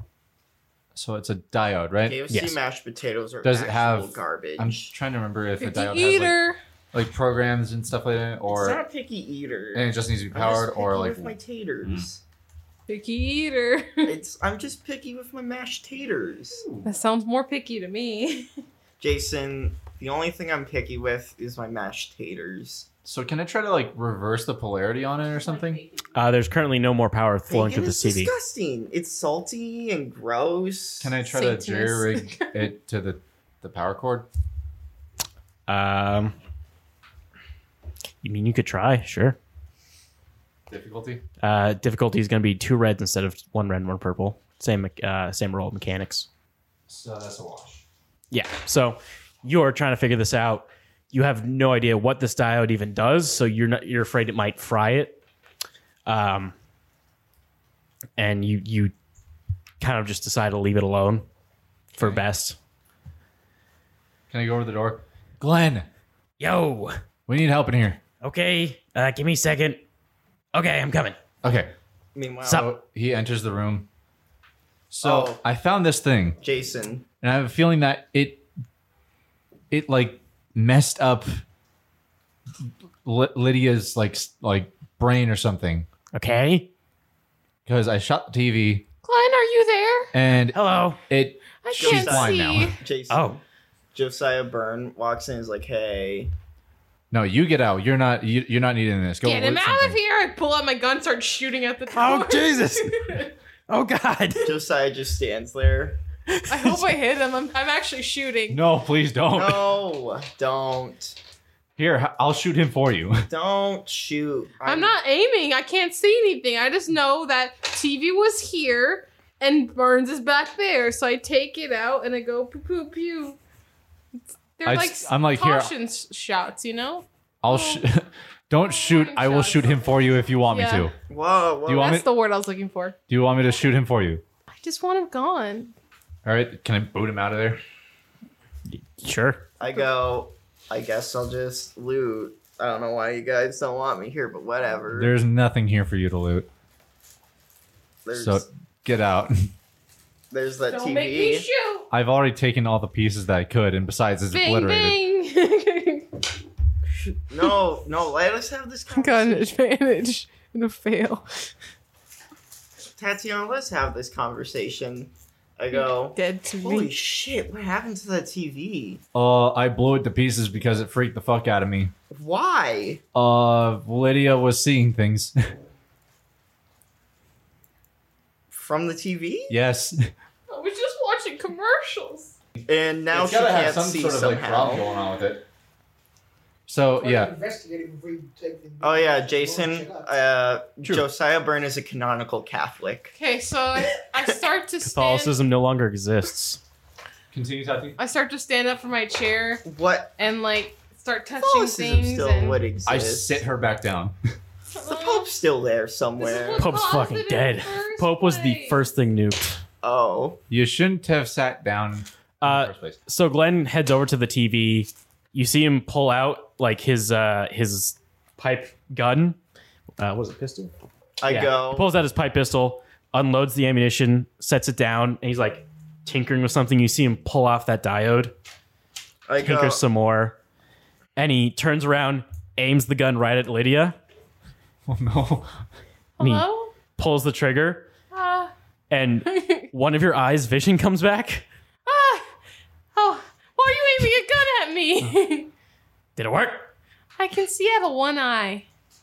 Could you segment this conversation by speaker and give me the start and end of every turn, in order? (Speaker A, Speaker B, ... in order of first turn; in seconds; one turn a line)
Speaker A: 0.9-2.2
Speaker B: 2.0-4.9
Speaker C: 2.3-2.6
Speaker A: 3.4-8.8
Speaker D: 5.6-6.6
Speaker B: 8.4-12.2
Speaker A: 9.7-12.1
Speaker D: 12.9-14.1
Speaker B: 14.0-16.6
Speaker A: 16.6-16.9
Speaker D: 16.8-18.5
Speaker B: 19.0-22.9
Speaker A: 23.1-25.8
Speaker D: 25.4-26.0
Speaker C: 26.1-28.3
Speaker B: 27.5-31.1
Speaker A: 31.0-34.3
Speaker D: 31.3-32.6
Speaker C: 35.7-36.4
Speaker C: 38.2-39.4
Speaker A: 40.7-41.2
Speaker C: 41.4-46.3
Speaker A: 46.9-47.8
Speaker C: 48.3-55.2
Speaker C: 56.1-56.5
Speaker C: 58.2-58.9
Speaker C: 59.8-61.3
Speaker C: 62.0-62.6
Speaker A: 64.3-65.9
Speaker C: 66.4-67.0
Speaker A: 67.3-68.0
Speaker C: 68.2-69.8
Speaker C: 70.5-71.2
Speaker A: 71.4-71.7
Speaker B: 72.2-72.7
Speaker A: 72.5-73.9
Speaker A: 74.9-76.4
Speaker B: 75.0-75.4
Speaker B: 76.4-77.0
Speaker A: 77.2-78.4
Speaker A: 79.7-81.4
Speaker A: 83.0-85.9
Speaker C: 86.1-86.7
Speaker A: 87.7-88.9
Speaker D: 89.0-90.1
Speaker A: 90.1-92.7
Speaker C: 90.5-91.0
Speaker D: 91.6-92.8
Speaker B: 91.7-93.3
Speaker C: 93.1-93.4
Speaker B: 93.9-96.3
Speaker A: 97.1-100.0
Speaker D: 99.2-103.3
Speaker C: 101.9-102.9
Speaker C: 103.7-104.5
Speaker B: 104.4-106.0
Speaker C: 106.3-106.8
Speaker D: 106.5-108.6
Speaker A: 108.5-109.7
Speaker B: 109.3-111.2
Speaker A: 111.8-113.3
Speaker B: 113.3-115.0
Speaker D: 114.6-123.4
Speaker D: 124.6-127.8
Speaker A: 124.6-125.7
Speaker A: 127.4-130.9
Speaker D: 128.6-130.9
Speaker B: 131.1-132.0
Speaker A: 131.7-132.1
Speaker D: 131.7-133.0
Speaker A: 133.1-134.2
Speaker D: 134.6-135.7
Speaker A: 136.2-137.6
Speaker C: 138.7-139.4
Speaker B: 139.6-145.2
Speaker A: 144.9-146.5
Speaker B: 148.1-148.4
Speaker A: 148.1-149.5
Speaker B: 150.3-151.5
Speaker D: 150.7-151.9
Speaker A: 151.9-155.0
Speaker D: 154.3-156.2
Speaker B: 157.0-159.5
Speaker D: 158.9-161.5
Speaker B: 163.0-169.0
Speaker D: 165.7-166.9
Speaker A: 169.2-171.9
Speaker B: 172.1-173.0
Speaker A: 173.2-175.5
Speaker B: 178.5-179.6
Speaker A: 179.5-180.1
Speaker D: 180.5-182.3
Speaker B: 182.7-184.8
Speaker A: 183.1-185.4
Speaker A: 186.7-187.3
Speaker E: 186.9-190.1
Speaker B: 188.8-193.2
Speaker D: 193.2-195.4
Speaker B: 194.0-194.3
Speaker C: 194.8-196.6
Speaker A: 197.3-198.0
Speaker D: 198.0-199.7
Speaker B: 199.7-200.1
Speaker D: 200.2-202.6
Speaker B: 201.3-203.4
Speaker A: 202.9-204.2
Speaker D: 204.7-205.3
Speaker B: 204.8-206.8
Speaker D: 206.2-208.8
Speaker C: 206.6-209.6
Speaker B: 209.8-210.4
Speaker A: 210.5-213.0
Speaker C: 212.4-219.4
Speaker C: 220.0-220.7
Speaker B: 221.2-221.9
Speaker C: 221.3-228.3
Speaker B: 229.3-229.8
Speaker C: 229.4-230.4
Speaker C: 231.2-234.0
Speaker A: 234.9-235.5
Speaker D: 236.2-236.7
Speaker C: 236.2-237.9
Speaker D: 238.1-238.5
Speaker C: 238.9-241.4
Speaker D: 239.3-239.7
Speaker D: 241.9-242.3
Speaker D: 242.9-245.5
Speaker C: 246.2-246.7
Speaker D: 247.2-248.7